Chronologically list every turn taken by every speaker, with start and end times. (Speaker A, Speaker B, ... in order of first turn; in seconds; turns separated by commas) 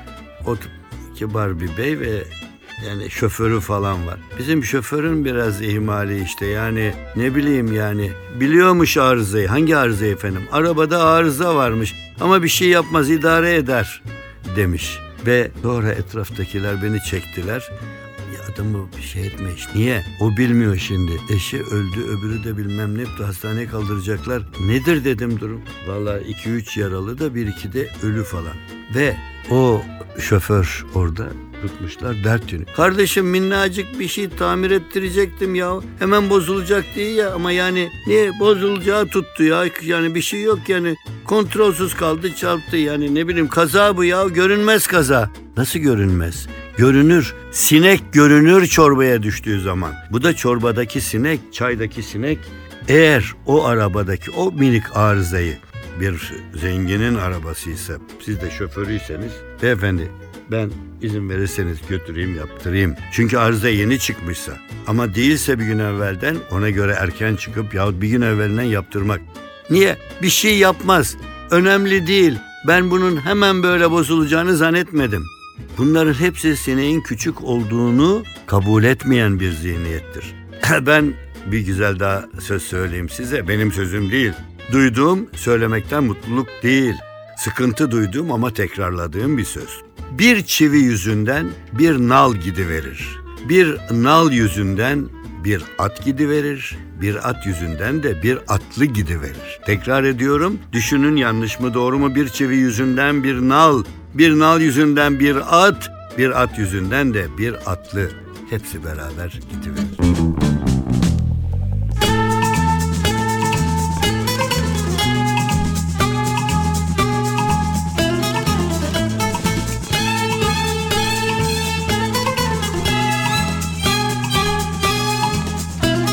Speaker A: 0.4-17.7, Speaker A: 18.3-110.0